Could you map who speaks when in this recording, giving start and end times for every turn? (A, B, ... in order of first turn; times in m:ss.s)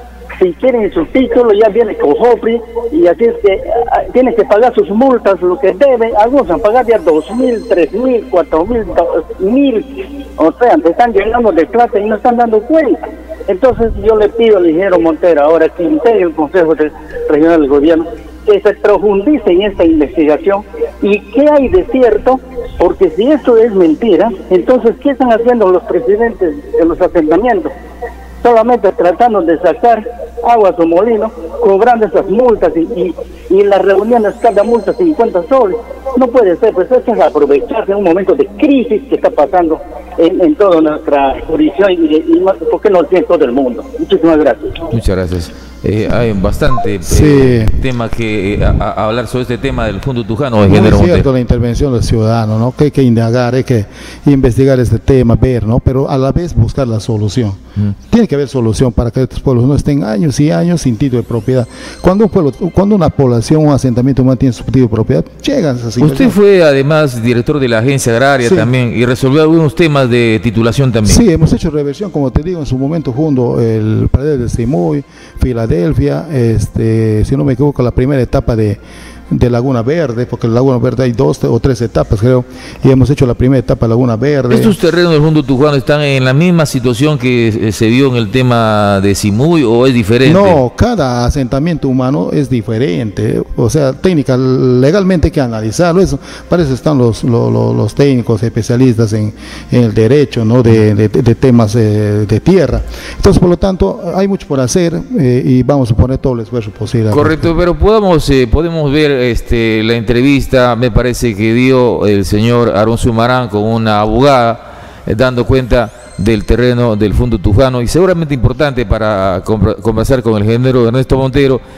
0:00.4-0:27.7 A
0:28.4-0:44.8 A
0:44.9-0:51.2 B
0:47.0-0:47.8 C
0:50.6-1:06.3 C
1:06.0-1:11.2 B
1:08.4-1:08.7 C
1:11.0-1:24.7 C
1:24.5-1:30.6 B
1:30.2-1:47.4 C
1:47.1-2:01.6 B